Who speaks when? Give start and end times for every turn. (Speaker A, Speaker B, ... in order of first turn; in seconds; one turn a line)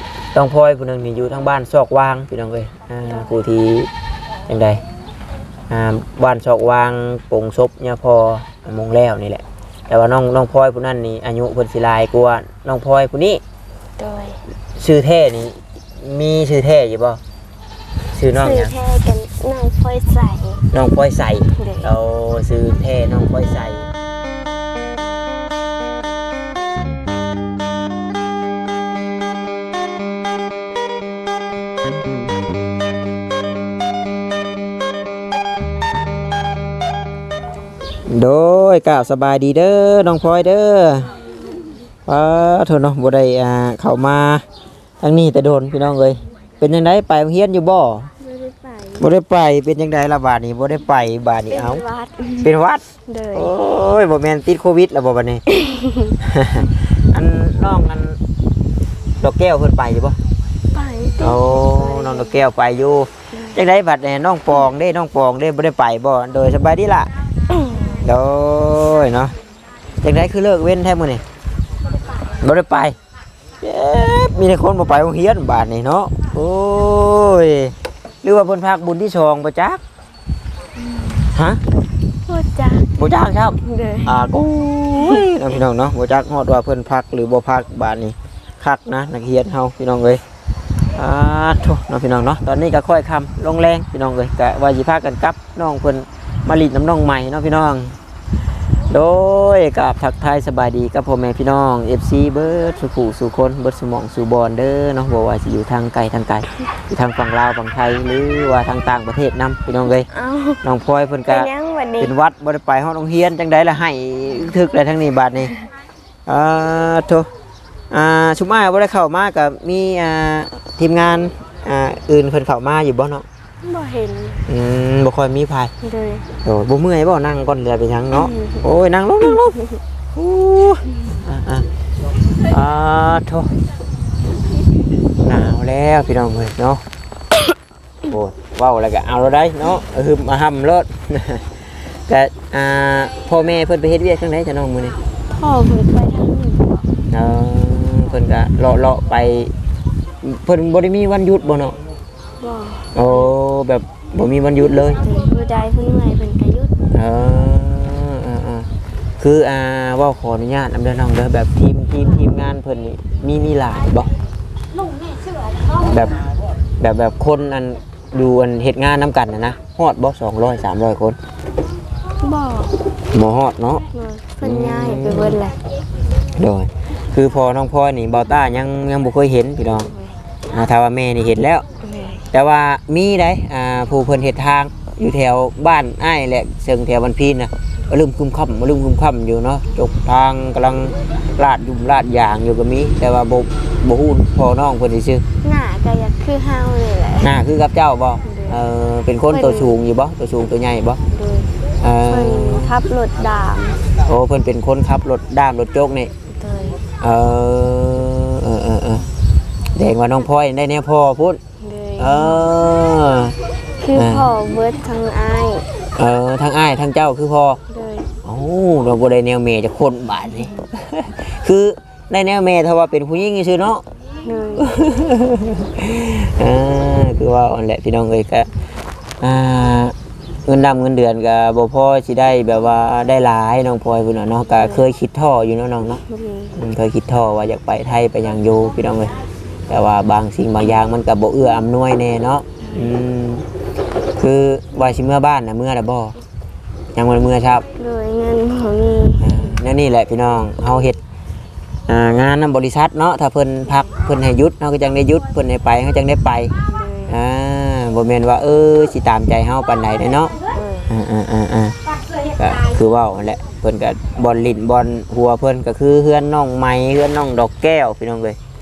Speaker A: 0.3-3.9
Speaker B: 3.1-3.4
Speaker A: 4.5-4.8
Speaker A: 5.7-13.4
Speaker B: 14.0-14.4
Speaker A: 14.8-17.2
Speaker A: 18.1-18.7
Speaker B: 18.3-20.7
Speaker A: 20.7-23.9
Speaker B: 21.6-21.9
Speaker A: 38.1-41.1
Speaker A: 42.1-44.4
Speaker A: 45.0-48.1
Speaker B: 48.2-49.1
Speaker A: 49.0-51.8
Speaker B: 51.5-52.5
Speaker A: 52.4-55.5
Speaker B: 53.1-53.5
Speaker B: 55.5-56.2
Speaker A: 56.2-58.2
Speaker A: 59.2-60.2
Speaker B: 60.7-62.4
Speaker A: 61.2-67.1
Speaker B: 63.3-63.6
Speaker B: 67.5-68.1
Speaker A: 68.0-69.3
Speaker A: 70.0-71.2
Speaker B: 71.9-72.4
Speaker A: 72.4-73.0
Speaker A: 73.6-79.8
Speaker B: 80.8-81.3
Speaker A: 81.3-81.6
Speaker B: 81.8-82.9
Speaker A: 83.0-90.2
Speaker B: 83.6-84.2
Speaker B: 84.9-85.3
Speaker A: 90.9-98.0
Speaker A: 98.9-110.1
Speaker B: 110.1-110.6
Speaker A: 110.6-111.5
Speaker B: 111.3-112.1
Speaker A: 112.0-115.6
Speaker A: 116.3-117.3
Speaker A: 117.9-123.3
Speaker B: 123.6-124.5
Speaker A: 124.5-125.7
Speaker B: 125.8-126.3
Speaker A: 126.4-129.6
Speaker B: 128.1-128.7
Speaker B: 129.5-129.8
Speaker A: 130.1-131.7
Speaker A: 132.4-133.5
Speaker A: 135.2-136.8
Speaker A: 138.1-145.0
Speaker B: 145.3-146.9
Speaker A: 147.1-149.5
Speaker A: 150.2-151.8
Speaker B: 152.4-153.4
Speaker A: 152.9-155.0
Speaker B: 154.8-156.8
Speaker A: 156.9-158.7
Speaker A: 159.2-164.1
Speaker A: 165.8-166.2
Speaker A: 166.8-171.2
Speaker B: 172.2-172.9
Speaker A: 173.1-173.9
Speaker B: 173.9-175.6
Speaker A: 174.4-175.4
Speaker A: 176.4-179.9
Speaker B: 179.8-180.2
Speaker A: 180.5-181.7
Speaker B: 181.8-182.3
Speaker A: 182.3-195.2
Speaker B: 195.4-197.4
Speaker A: 197.2-201.0
Speaker B: 198.2-198.7
Speaker B: 199.3-199.8
Speaker B: 201.1-201.5
Speaker A: 201.8-202.7
Speaker B: 202.0-203.8
Speaker A: 203.9-206.1
Speaker B: 206.3-206.8
Speaker A: 207.0-209.1
Speaker A: 209.8-211.4
Speaker B: 211.6-212.5
Speaker A: 212.0-213.4
Speaker B: 213.8-215.7
Speaker A: 213.9-214.3
Speaker A: 216.0-217.6
Speaker B: 217.7-218.1
Speaker A: 218.2-223.8
Speaker B: 224.2-224.8
Speaker A: 224.6-228.5
Speaker A: 229.2-229.9
Speaker A: 230.5-236.0
Speaker B: 234.6-234.8
Speaker B: 236.0-236.6
Speaker A: 236.6-239.2
Speaker A: 239.7-243.5
Speaker A: 244.2-246.2
Speaker A: 246.9-247.7
Speaker B: 247.7-249.6
Speaker A: 249.2-251.0
Speaker A: 251.9-256.5
Speaker B: 256.6-257.2
Speaker A: 257.1-260.4
Speaker B: 260.5-260.9
Speaker A: 260.9-261.8
Speaker A: 262.3-268.4